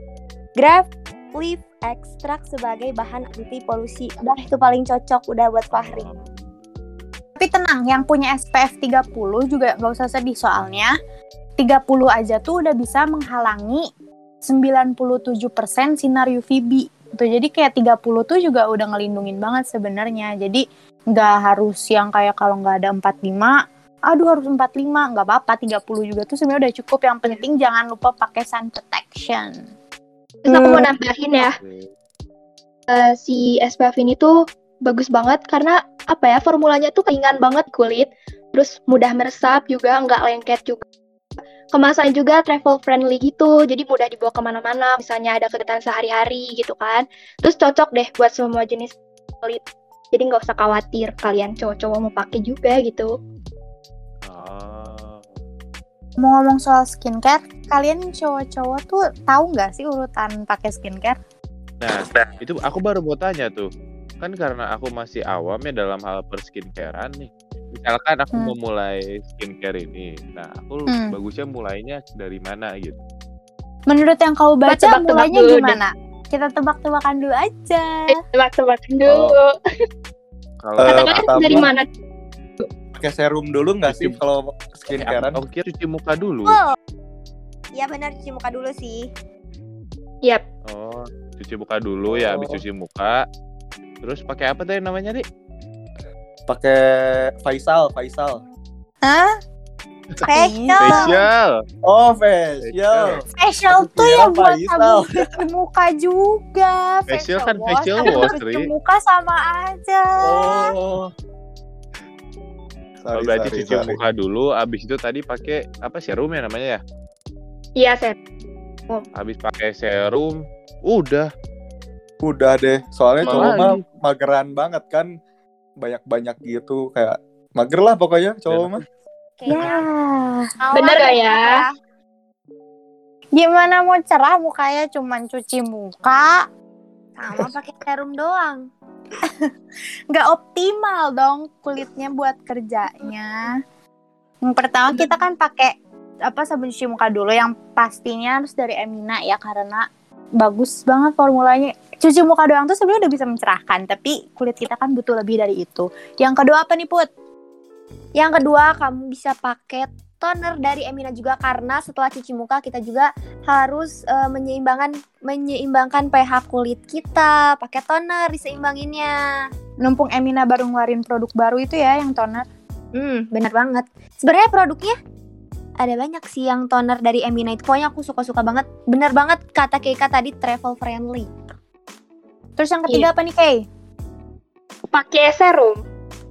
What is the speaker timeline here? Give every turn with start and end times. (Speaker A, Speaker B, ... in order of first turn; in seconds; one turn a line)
Speaker A: 0.6-6.1
Speaker B: 5.7-6.5
Speaker C: 7.4-10.9
Speaker C: 11.6-13.9
Speaker C: 14.4-23.6
Speaker C: 24.1-29.5
Speaker D: 30.4-31.6
Speaker A: 30.5-30.9
Speaker B: 31.4-31.9
Speaker D: 32.9-34.3
Speaker D: 34.9-40.8
Speaker D: 41.7-49.6
Speaker D: 50.1-53.1
Speaker B: 54.3-55.3
Speaker C: 56.2-61.2
Speaker B: 61.8-63.7
Speaker B: 64.2-73.0
Speaker C: 70.9-71.2
Speaker C: 73.9-78.2
Speaker D: 74.7-75.8
Speaker D: 78.1-79.5
Speaker B: 80.6-81.7
Speaker E: 80.8-81.7
Speaker D: 80.9-81.9
Speaker E: 83.0-85.4
Speaker B: 83.9-84.2
Speaker B: 84.9-86.6
Speaker A: 86.5-86.8
Speaker A: 87.8-89.1
Speaker B: 90.7-93.2
Speaker E: 92.1-92.6
Speaker B: 94.0-95.2
Speaker E: 96.5-98.4
Speaker C: 99.0-99.3
Speaker A: 100.3-100.9
Speaker C: 100.3-101.2
Speaker B: 100.8-101.6
Speaker E: 101.8-105.0
Speaker B: 102.6-103.2
Speaker C: 103.4-110.7
Speaker B: 107.1-108.7
Speaker E: 110.2-111.1
Speaker E: 113.0-114.0
Speaker B: 113.2-116.8
Speaker D: 117.8-118.2
Speaker B: 119.2-121.3
Speaker E: 122.2-125.1
Speaker B: 123.2-123.8
Speaker C: 123.3-123.7
Speaker E: 125.8-128.8
Speaker B: 128.5-128.8
Speaker A: 129.4-129.8
Speaker C: 129.5-130.6
Speaker A: 130.6-131.7
Speaker D: 130.7-131.7
Speaker C: 133.4-136.4
Speaker A: 137.2-138.6
Speaker C: 140.1-143.5
Speaker C: 144.4-145.7
Speaker C: 146.2-149.8
Speaker C: 150.4-157.1
Speaker A: 158.2-169.1
Speaker C: 169.8-172.5
Speaker A: 172.9-175.0
Speaker A: 175.8-181.3
Speaker C: 182.6-183.7
Speaker D: 184.9-185.8